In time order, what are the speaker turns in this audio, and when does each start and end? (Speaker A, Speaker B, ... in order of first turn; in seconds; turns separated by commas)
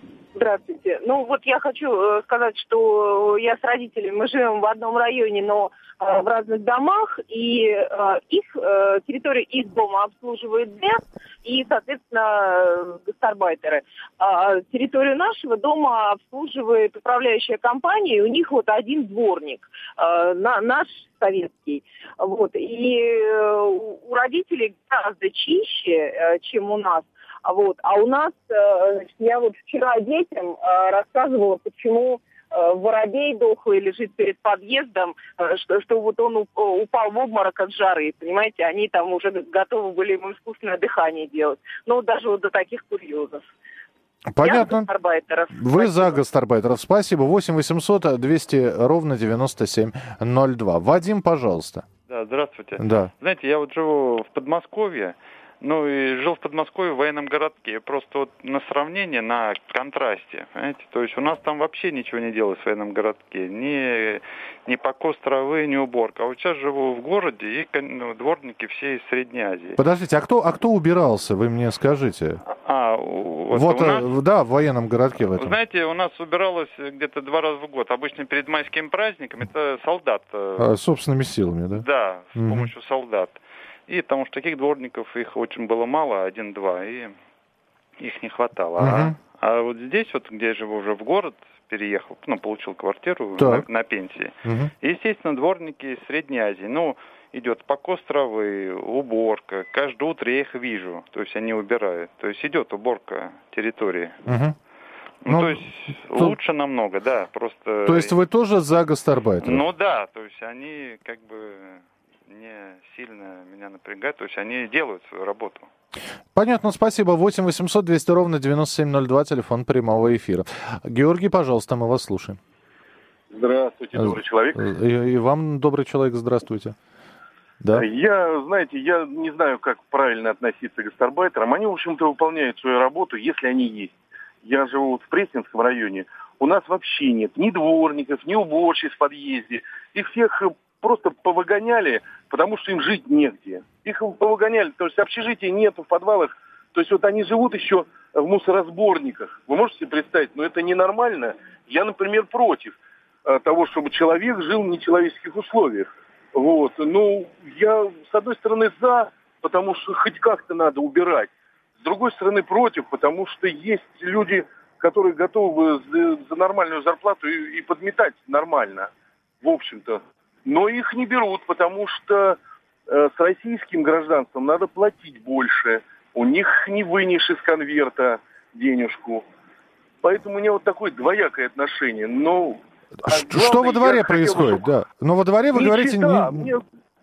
Speaker A: 0.3-43.5, Speaker B: 44.3-44.9, Speaker A: 44.4-46.2, Speaker B: 45.5-51.9, Speaker C: 52.1-69.8, Speaker B: 52.8-53.1, Speaker B: 69.8-72.4, Speaker C: 72.5-74.1, Speaker B: 73.5-75.5, Speaker C: 75.3-80.7, Speaker B: 80.6-82.7, Speaker C: 81.8-87.2, Speaker C: 88.0-104.2, Speaker B: 88.8-89.2, Speaker B: 93.4-93.7, Speaker B: 94.5-94.7, Speaker B: 104.3-104.6, Speaker C: 105.2-108.2, Speaker B: 105.3-105.6, Speaker B: 107.8-109.6, Speaker C: 109.4-115.7, Speaker B: 116.3-122.4, Speaker D: 123.3-124.7, Speaker B: 124.0-126.8, Speaker D: 127.7-168.9, Speaker D: 169.4-179.2, Speaker D: 180.0-184.6, Speaker B: 183.1-186.5, Speaker D: 185.5-186.6